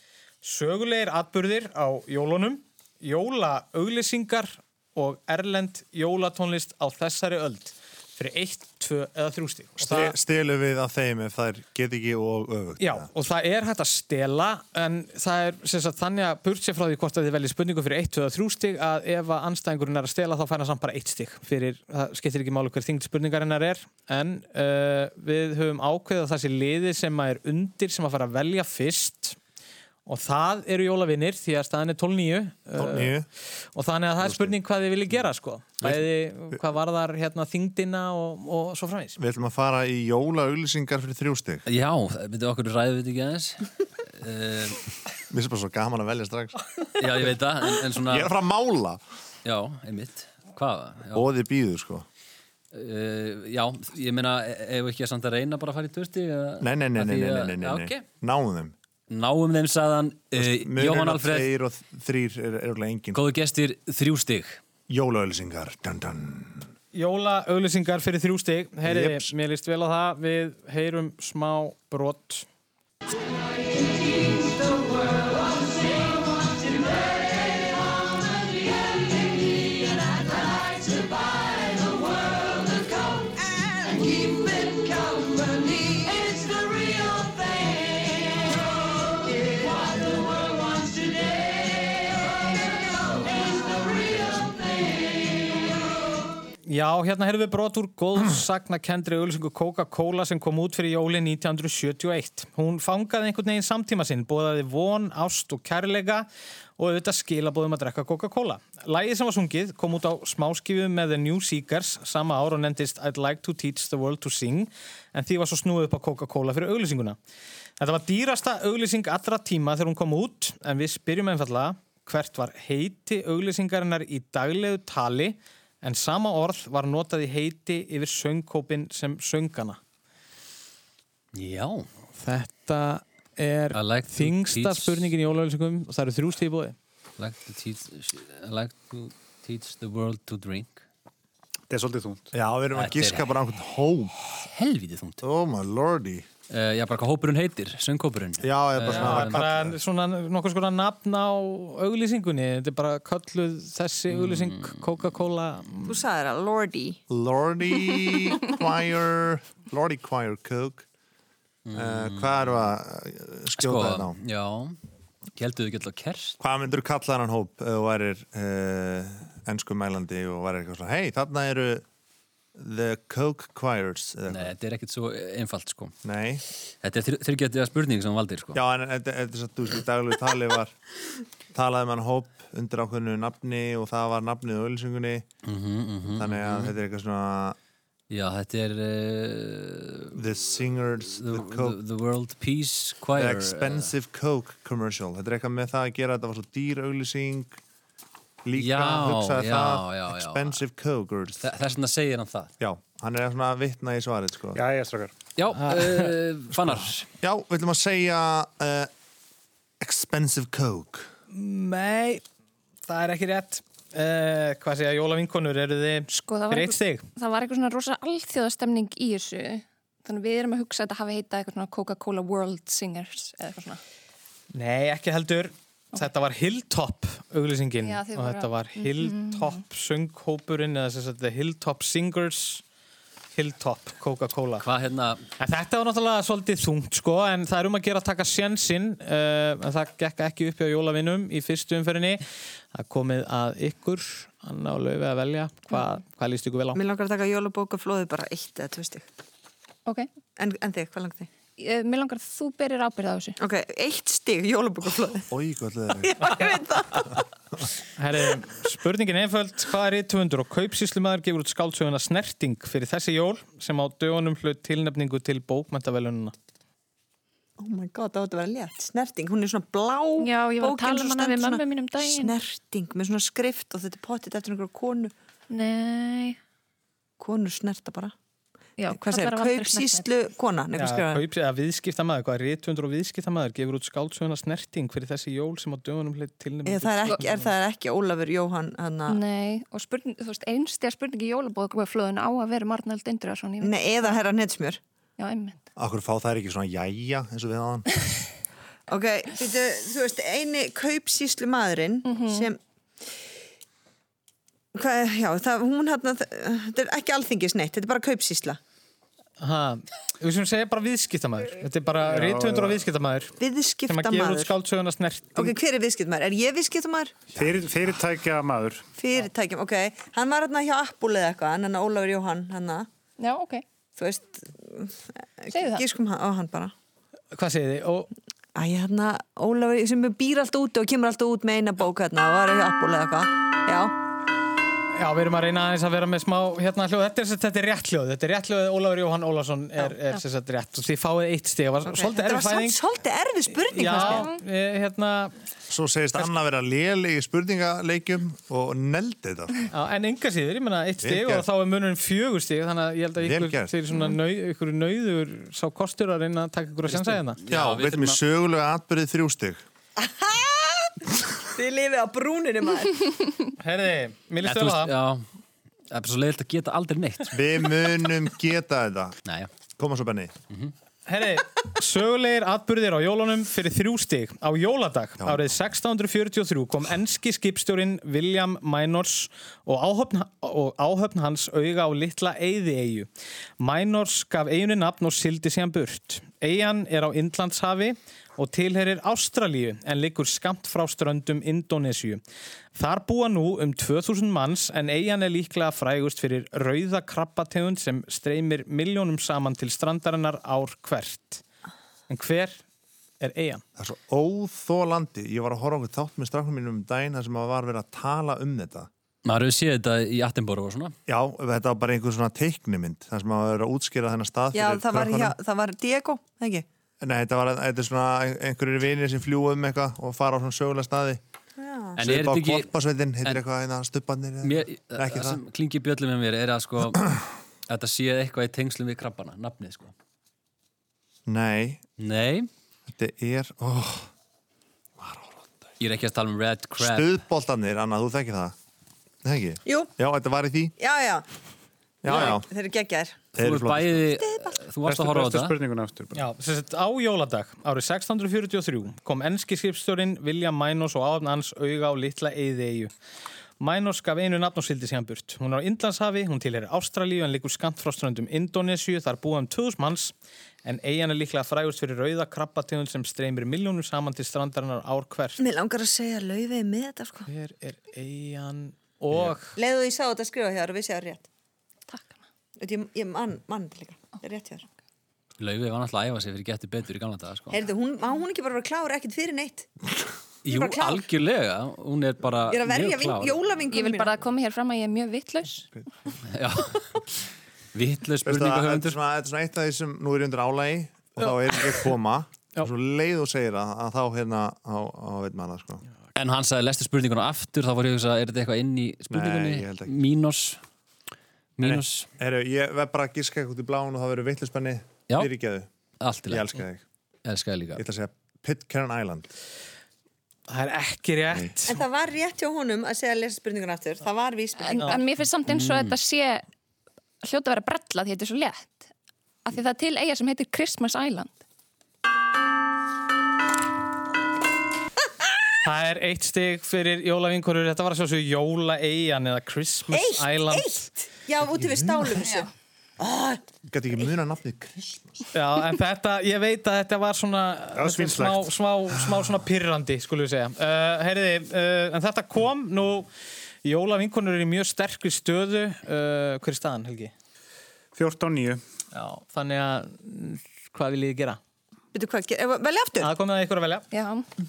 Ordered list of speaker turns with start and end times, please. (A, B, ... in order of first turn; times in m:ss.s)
0:00.4-0:10.1 A
0:09.8-0:13.1 B
0:12.8-0:29.4 A
0:30.0-0:33.1 A
0:32.8-0:33.3 B
0:33.7-0:39.2 A
0:34.2-0:34.5 B
0:39.2-0:41.6 B
0:41.6-0:44.8 C
0:45.3-0:46.6 B
0:47.0-0:48.3 C
0:48.0-0:49.0 B
0:49.4-0:51.3 C
0:51.1-0:52.0 B
0:52.7-0:58.0 C
0:56.6-0:58.7 B
0:59.1-1:01.5 C
1:00.4-1:03.2 B
1:03.1-1:04.6 C
1:04.9-1:06.7 B
1:06.9-1:12.4 A
1:08.8-1:09.3 B
1:23.6-1:24.1 D
1:36.7-1:46.3 A
1:46.8-1:57.2 A
1:57.8-2:09.8 A
2:11.3-2:11.9 C
2:12.2-2:16.8 A
2:13.7-2:15.1 C
2:17.2-2:20.8 C
2:21.7-2:22.3 E
2:22.3-2:24.1 B
2:22.7-2:23.3 C
2:24.3-2:25.2 C
2:25.2-2:26.2 B
2:26.5-2:29.4 C
2:28.4-2:29.7 B
2:28.9-2:36.0 A
2:34.1-2:34.8 C
2:35.9-2:37.0 D
2:37.1-2:40.8 B
2:41.6-2:42.6 C
2:41.7-2:44.2 B
2:43.6-2:44.8 C
2:45.4-2:46.4 C
2:46.4-2:51.8 B
2:52.6-2:54.5 B
2:54.3-2:55.9 C
2:56.0-2:56.4 B
2:56.8-2:58.6 C
2:58.5-3:00.7 B
3:01.5-3:05.3 B
3:05.4-3:06.7 C
3:06.1-3:07.6 B
3:08.1-3:10.2 C
3:10.1-3:11.8 B
3:11.1-3:13.9 C
3:13.1-3:17.6 B
3:18.4-3:21.5 B
3:18.5-3:20.6 C
3:21.4-3:22.5 C
3:22.6-3:24.6 B
3:24.5-3:25.1 E
3:25.4-3:27.1 C
3:25.6-3:26.1 A
3:26.5-3:28.9 B
3:29.8-3:31.1 B
3:31.3-3:32.2 A
3:32.9-3:37.0 A
3:36.1-3:43.8 F
3:44.5-3:52.6 A
3:47.8-3:49.6 F
3:53.3-3:54.6 A
3:54.6-3:55.2 C
3:55.4-4:02.2 A
4:02.7-4:06.8 A
4:06.7-4:09.0 D
4:10.4-4:11.3 D
4:11.6-4:13.4 F
4:13.4-4:15.3 D
4:15.3-4:16.4 B
4:16.0-4:17.2 D
4:18.0-4:26.3 A
4:27.6-4:35.1 D
4:30.2-4:32.4 F
4:35.5-4:36.4 F
4:37.2-4:38.1 D
4:38.8-4:40.0 F
4:38.9-4:41.2 D
4:40.8-4:47.5 A
4:46.6-4:49.2 D
4:49.1-4:54.2 F
4:53.6-4:54.8 D
4:55.2-4:55.6 F
4:55.8-4:57.8 B
4:58.9-5:02.6 D
5:02.0-5:02.5 F
5:04.7-5:08.6 D
5:09.4-5:13.3 A
5:12.0-5:12.8 E
5:13.4-5:14.5 D
5:13.9-5:15.5 A
5:15.4-5:17.2 D
5:17.3-5:18.8 E
5:19.0-5:22.9 D
5:23.2-5:23.6 F
5:24.0-5:26.7 D
5:25.5-5:25.8 F
5:27.3-5:28.1 A
5:28.5-5:33.9 D
5:34.9-5:42.8 A
5:41.8-5:44.3 D
5:43.7-5:45.3 A
5:43.8-5:44.3 F
5:45.7-5:49.7 B
5:49.7-5:57.4 A
5:51.0-5:51.4 B
5:53.2-5:53.7 B
5:56.9-5:58.2 C
5:57.5-5:59.6 B
6:00.0-6:01.0 D
6:01.5-6:03.1 D
6:03.6-6:04.9 A
6:04.4-6:05.2 C
6:05.9-6:07.4 C
6:07.3-6:09.2 B
6:09.8-6:10.3 B
6:11.1-6:23.1 A
6:15.2-6:15.5 B
6:23.6-6:32.2 A
6:32.7-6:41.4 A
6:42.1-6:42.6 A
6:43.2-6:43.6 A
6:43.8-6:48.9 B
6:49.2-6:50.9 C
6:51.1-6:55.4 B
6:54.5-6:56.6 D
6:57.0-7:01.2 B
7:01.6-7:02.0 D
7:02.0-7:02.7 C
7:02.0-7:05.4 B
7:04.4-7:07.1 C
7:07.7-7:09.9 C
7:11.3-7:11.8 B
7:12.0-7:12.5 C
7:12.9-7:14.1 B
7:15.0-7:15.7 B
7:15.8-7:17.2 C
7:16.8-7:18.5 B
7:19.2-7:20.7 B
7:20.8-7:21.2 D
7:22.0-7:22.5 B
7:22.0-7:23.2 D
7:23.3-7:24.2 B
7:23.4-7:25.6 C
7:24.2-7:24.6 D
7:24.8-7:26.3 E
7:26.1-7:32.9 A
7:33.6-7:40.1 A
7:40.6-7:45.4 A
7:45.4-7:47.3 D
7:47.3-7:49.6 A
7:49.6-7:51.2 D
7:51.9-7:52.2 F
7:52.6-7:54.6 D
7:55.4-7:57.6 C
7:57.5-7:59.7 D
8:00.4-8:03.4 C
8:00.5-8:01.0 D
8:02.5-8:04.2 D
8:03.7-8:05.7 F
8:06.3-8:07.1 C
8:07.7-8:09.0 C
8:08.2-8:15.8 B
8:16.2-8:20.6 C
8:19.1-8:19.9 B
8:21.6-8:22.1 C
8:21.6-8:25.7 B
8:26.0-8:26.6 C
8:26.3-8:26.8 B
8:27.2-8:27.8 C
8:27.8-8:29.3 B
8:30.5-8:31.8 A
8:31.7-8:35.0 D
8:34.6-8:36.4 F
8:35.4-8:36.0 C
8:37.2-8:38.9 F
8:39.4-8:41.4 F
8:45.6-8:50.8 A
8:49.9-8:53.4 D
8:51.5-8:52.3 B
8:53.7-8:55.1 B
8:55.3-9:03.1 A
8:57.7-8:58.5 E
9:03.6-9:07.1 A
9:07.9-9:08.6 E
9:08.9-9:11.4 A
9:11.9-9:13.1 D
9:13.0-9:13.9 A
9:13.9-9:14.2 F